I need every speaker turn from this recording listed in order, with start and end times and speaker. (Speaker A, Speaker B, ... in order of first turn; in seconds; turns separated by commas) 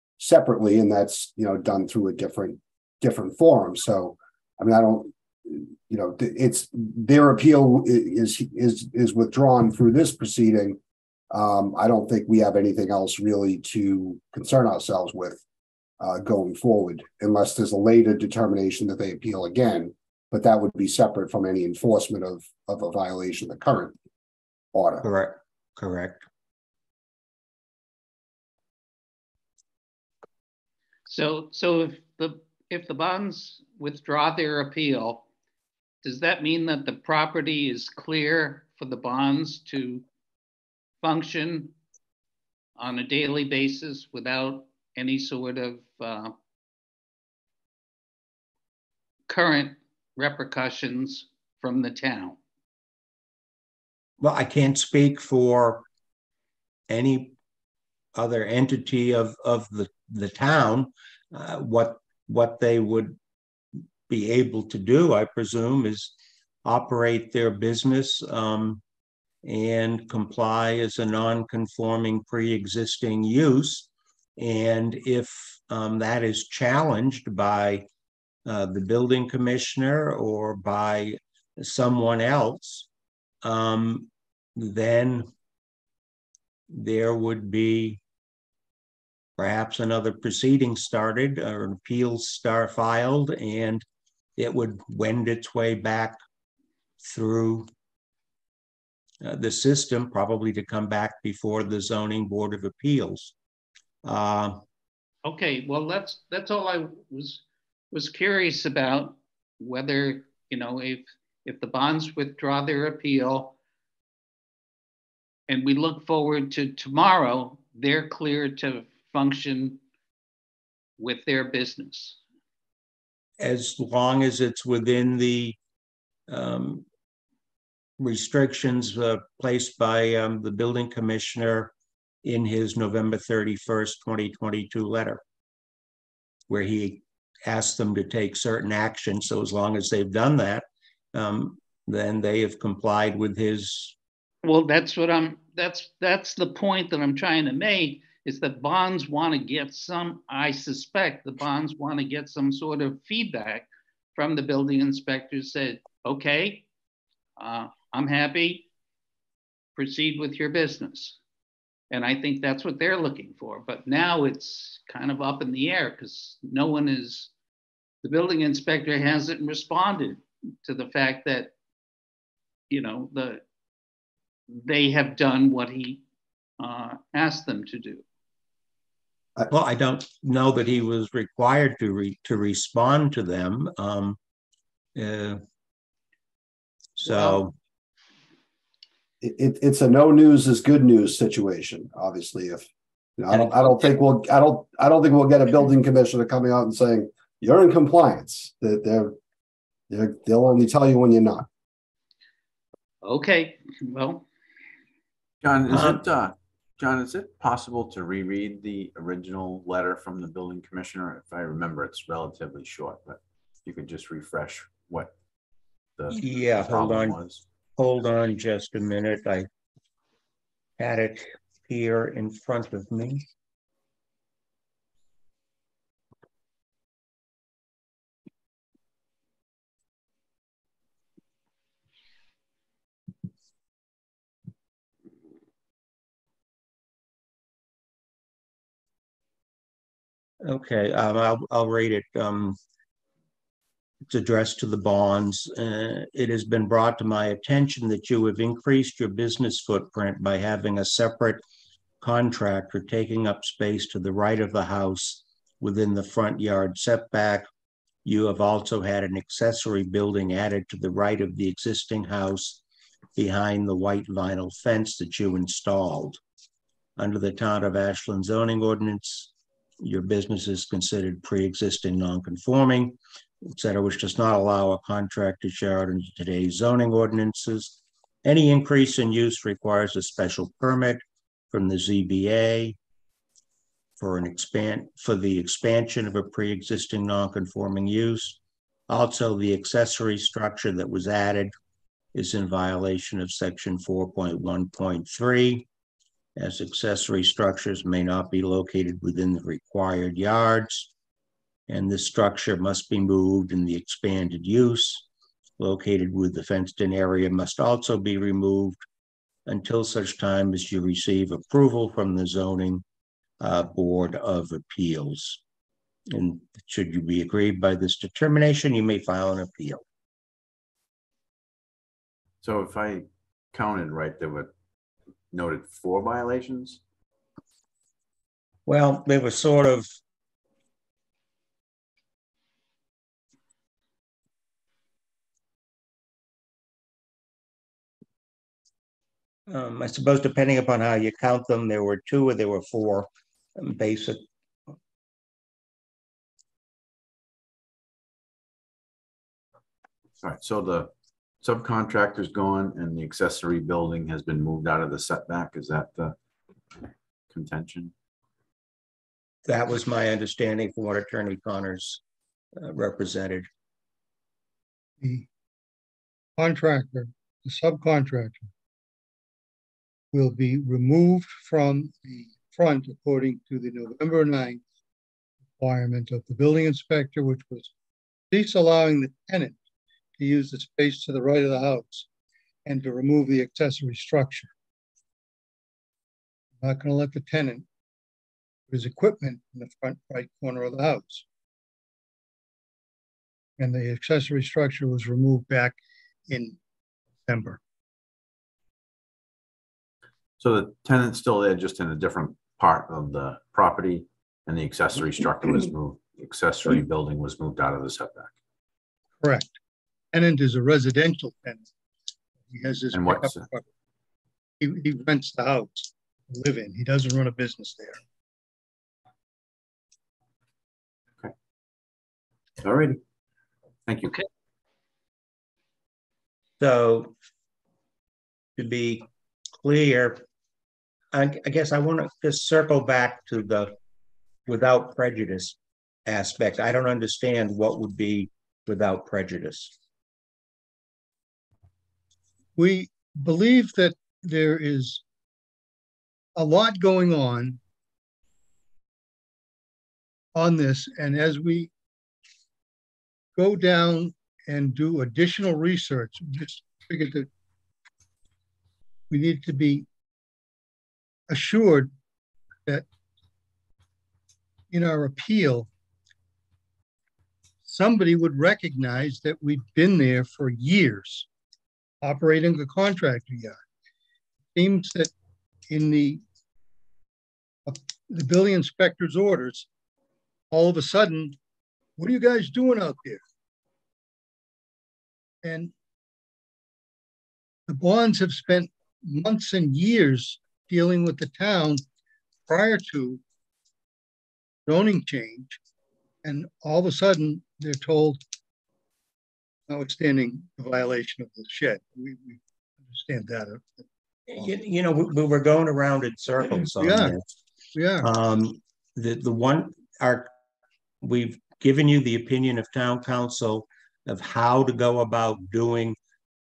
Speaker A: 0.2-10.8, Speaker A: 11.3-15.4, Speaker A: 16.0-23.9, Speaker A: 24.7-25.1, Speaker B: 25.0-26.3, Speaker C: 31.1-35.2, Speaker C: 36.0-40.0, Speaker C: 41.0-41.7, Speaker C: 42.8-46.4, Speaker C: 49.3-52.4, Speaker B: 54.2-55.9, Speaker B: 56.9-57.4, Speaker B: 58.2-63.2, Speaker B: 64.1-66.1, Speaker B: 66.7-68.8, Speaker B: 69.4-77.8, Speaker B: 78.5-82.9, Speaker B: 83.4-85.3, Speaker B: 86.7-88.0, Speaker B: 89.4-93.8, Speaker B: 94.4-96.2, Speaker B: 97.0-97.7, Speaker B: 99.2-103.3, Speaker B: 104.0-104.6, Speaker C: 105.2-113.5, Speaker C: 115.5-119.8, Speaker C: 121.0-122.2, Speaker B: 123.4-125.6, Speaker B: 126.3-126.8, Speaker B: 128.0-131.7, Speaker B: 132.2-135.2, Speaker B: 136.5-143.9, Speaker C: 144.4-156.7, Speaker C: 157.4-158.7, Speaker C: 159.8-161.2, Speaker C: 161.9-167.3, Speaker C: 168.0-171.5, Speaker C: 172.7-173.4, Speaker C: 174.5-176.0, Speaker C: 176.6-178.0, Speaker B: 179.5-184.2, Speaker B: 185.0-185.4, Speaker B: 187.0-187.5, Speaker A: 187.1-187.4, Speaker A: 189.2-192.7, Speaker A: 193.2-199.2, Speaker A: 199.9-201.5, Speaker C: 203.0-204.3, Speaker D: 205.4-215.1, Speaker B: 205.7-206.0, Speaker D: 216.0-217.4, Speaker B: 216.1-217.2, Speaker B: 217.8-219.5, Speaker B: 220.8-223.2, Speaker B: 240.4-242.6, Speaker B: 244.1-251.4, Speaker B: 252.0-257.5, Speaker B: 258.1-262.6, Speaker B: 263.2-266.2, Speaker B: 267.0-273.0, Speaker B: 273.5-282.8, Speaker B: 284.0-291.5, Speaker B: 292.1-295.7, Speaker B: 296.4-300.9, Speaker B: 301.7-305.1, Speaker B: 305.6-308.8, Speaker B: 309.5-312.8, Speaker B: 313.4-315.4, Speaker B: 316.1-319.8, Speaker D: 322.4-324.5, Speaker D: 325.3-326.8, Speaker B: 328.7-329.9, Speaker B: 339.5-344.2, Speaker D: 350.2-356.2, Speaker D: 356.8-357.9, Speaker B: 359.5-362.0, Speaker B: 362.6-363.5, Speaker E: 365.0-365.3, Speaker E: 366.4-368.5, Speaker E: 370.1-374.6, Speaker E: 375.6-377.7, Speaker E: 378.3-379.6, Speaker E: 380.2-382.1, Speaker E: 382.6-384.5, Speaker E: 386.6-387.7, Speaker E: 388.7-391.2, Speaker E: 393.6-395.8, Speaker E: 396.3-396.6, Speaker E: 397.2-397.6, Speaker D: 400.4-408.4, Speaker E: 409.2-409.6, Speaker E: 410.1-411.7, Speaker E: 412.5-413.7, Speaker D: 412.9-413.4, Speaker E: 414.6-418.0, Speaker D: 422.6-423.0, Speaker D: 423.9-424.2, Speaker B: 426.6-427.1, Speaker B: 428.6-429.1, Speaker B: 429.6-430.2, Speaker B: 431.1-433.8, Speaker B: 434.5-435.6, Speaker B: 436.1-439.7, Speaker E: 442.6-445.0, Speaker E: 446.4-447.6, Speaker E: 450.4-451.7, Speaker E: 453.4-457.3, Speaker E: 459.1-459.9, Speaker E: 461.3-461.9, Speaker E: 464.7-465.7, Speaker E: 467.6-471.3, Speaker E: 472.0-473.6, Speaker E: 474.6-475.1, Speaker E: 475.7-476.2, Speaker E: 477.7-479.7, Speaker E: 480.5-481.4, Speaker E: 482.0-483.2, Speaker E: 485.4-485.7, Speaker E: 487.7-491.8, Speaker E: 492.5-493.2, Speaker E: 494.7-495.6, Speaker E: 496.2-498.2, Speaker E: 499.7-503.9, Speaker B: 504.3-507.2, Speaker E: 506.8-507.2, Speaker E: 507.8-508.1, Speaker B: 508.0-510.3, Speaker B: 511.0-516.0